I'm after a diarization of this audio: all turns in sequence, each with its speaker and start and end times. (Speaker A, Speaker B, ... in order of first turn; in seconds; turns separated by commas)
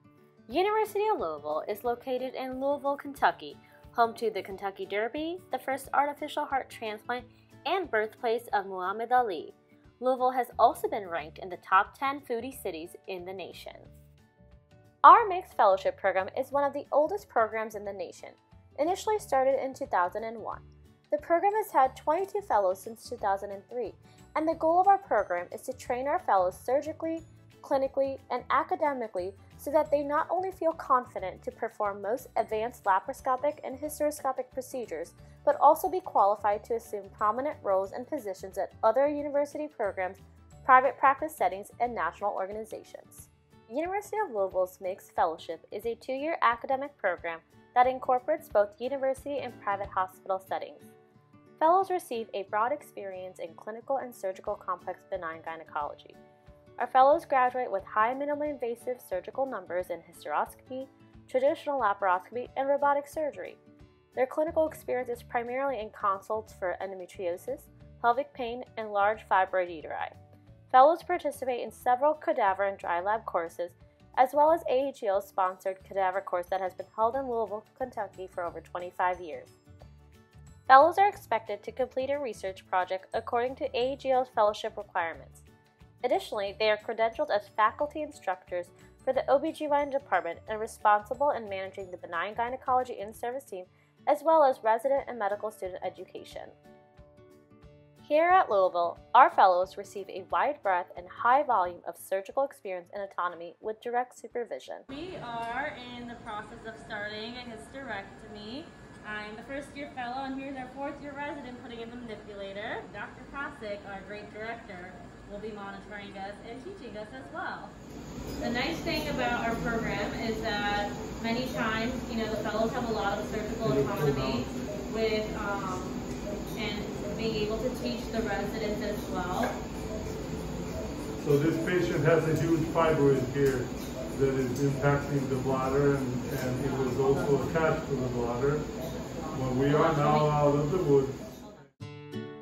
Speaker A: 0.5-13.9, Speaker A: 15.0-50.9, Speaker A: 51.6-56.2, Speaker A: 56.8-63.6, Speaker A: 64.2-70.2, Speaker A: 70.7-79.5, Speaker A: 80.7-85.4, Speaker A: 86.0-96.5, Speaker A: 98.0-104.9, Speaker B: 104.9-117.7, Speaker B: 118.4-126.0, Speaker C: 123.6-124.5, Speaker B: 126.5-129.5, Speaker C: 131.2-138.7, Speaker B: 136.7-137.8, Speaker B: 138.8-140.3, Speaker C: 139.3-141.2